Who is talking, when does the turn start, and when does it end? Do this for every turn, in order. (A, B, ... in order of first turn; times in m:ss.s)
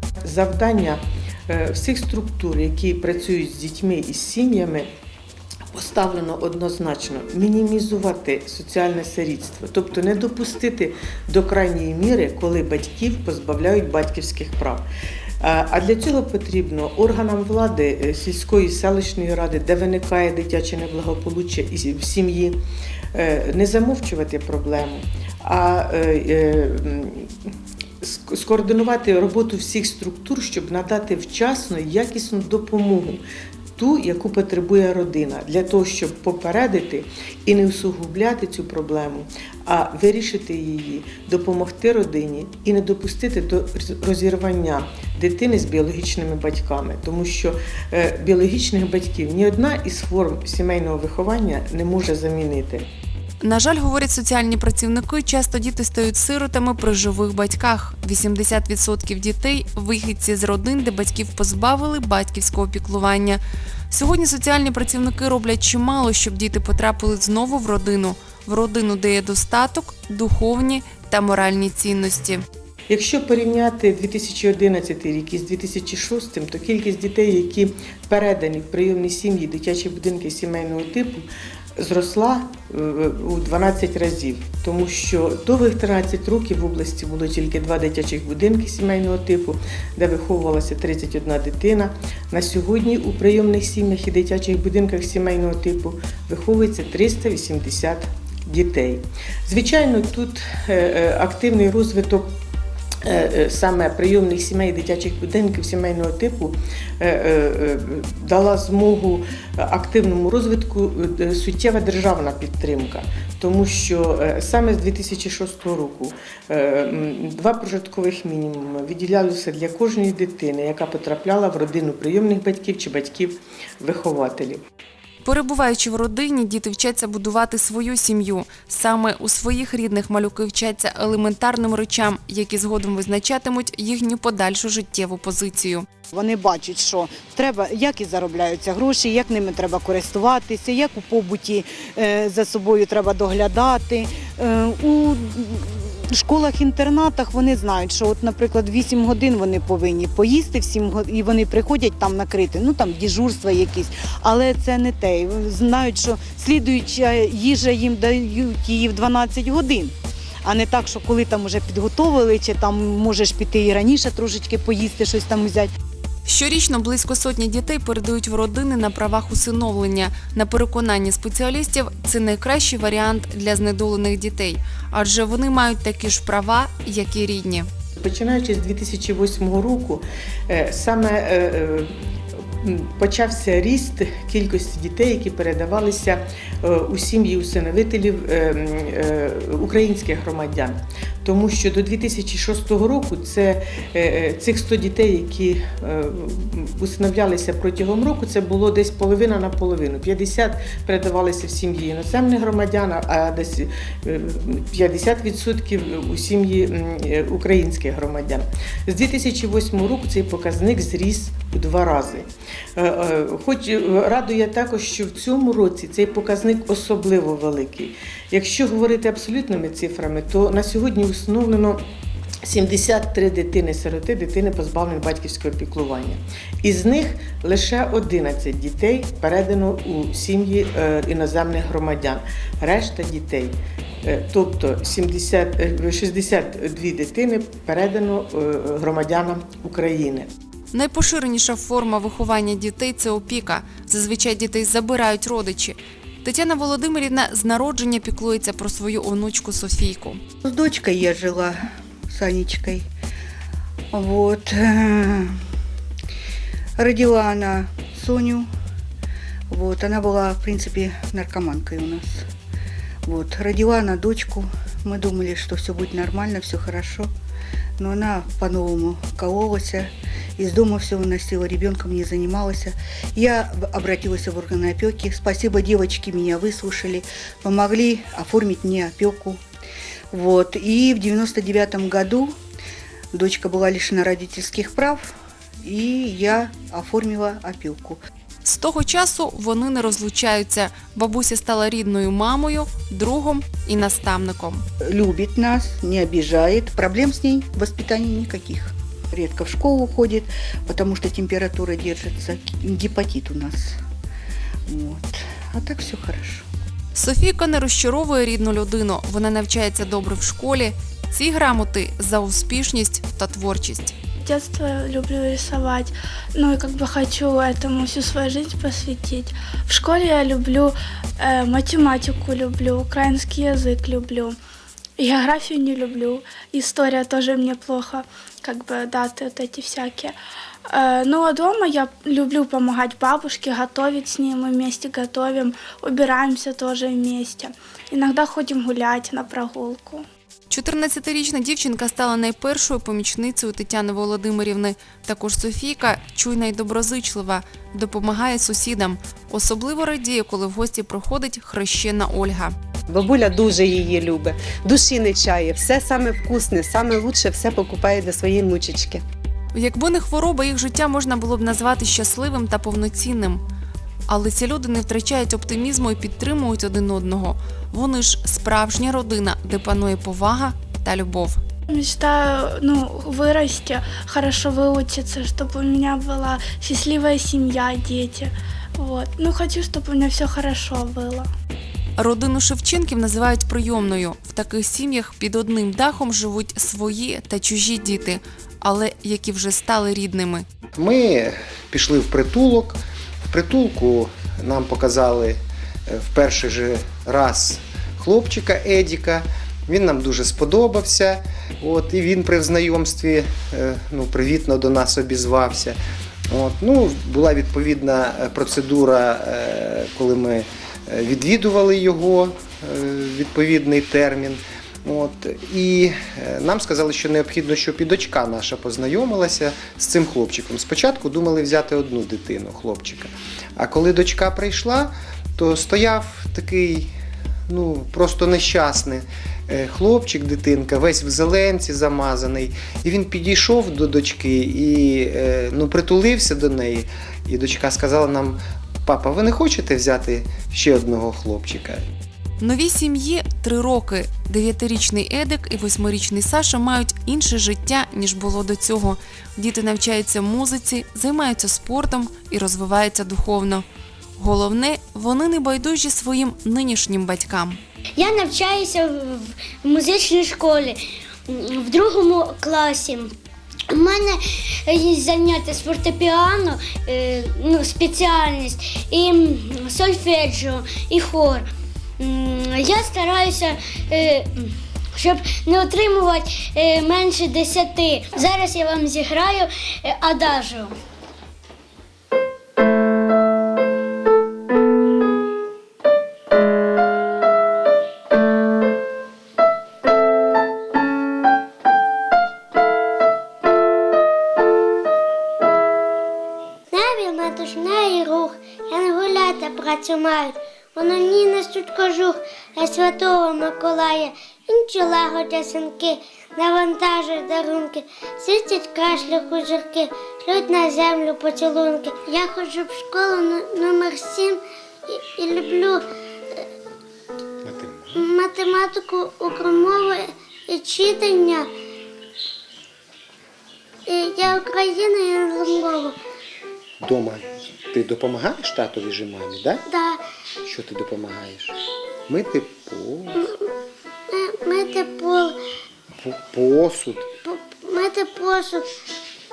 0:00.2-0:04.9 A
0:05.7-0:14.8 A
0:15.4-0:22.6 A
0:23.1-0:33.2 A
0:33.8-0:52.9 A
0:53.4-1:03.4 B
1:03.9-1:12.4 B
1:12.9-1:21.3 A
1:21.8-1:42.3 A
1:43.0-2:04.6 A
2:05.2-2:15.8 B
2:16.1-2:45.7 C
2:46.3-2:57.7 B
2:58.0-3:01.9 A
3:02.6-3:41.8 A
3:42.4-4:00.3 A
4:00.7-4:10.2 B
4:10.4-4:11.6 D
4:12.1-4:12.9 D
4:13.9-4:15.4 D
4:16.8-4:18.5 D
4:19.5-4:22.2 D
4:23.0-4:27.1 D
4:27.8-4:39.4 D
4:40.1-4:42.3 D
4:43.1-4:45.1 D
4:45.6-4:48.0 D
4:48.4-4:54.6 B
4:54.8-5:03.8 D
5:04.7-5:06.4 D
5:07.0-5:14.0 B
5:14.2-5:24.4 E
5:25.0-5:30.2 E
5:30.7-5:40.0 E
5:40.5-5:52.6 B
5:52.9-5:59.0 F
5:59.5-6:03.4 B
6:04.1-6:11.4 B
6:11.7-6:21.3 E
6:22.0-6:30.5 B
6:30.8-6:45.8 G
6:46.3-7:06.9 G
7:07.5-7:21.8 G
7:22.4-7:33.7 B
7:34.2-7:37.6 B
7:38.0-7:43.1 H
7:43.7-7:51.5 H
7:52.0-8:00.8 H
8:16.7-8:36.4 H
8:37.4-8:38.1 G
8:38.0-8:41.5 H
8:43.9-8:46.0 H
8:46.8-8:49.6 G
8:49.7-8:50.0 H
8:50.4-8:51.6 G
8:52.1-8:53.3 G
8:54.1-8:55.4 H
8:56.0-8:57.1 G
8:57.2-8:58.7 H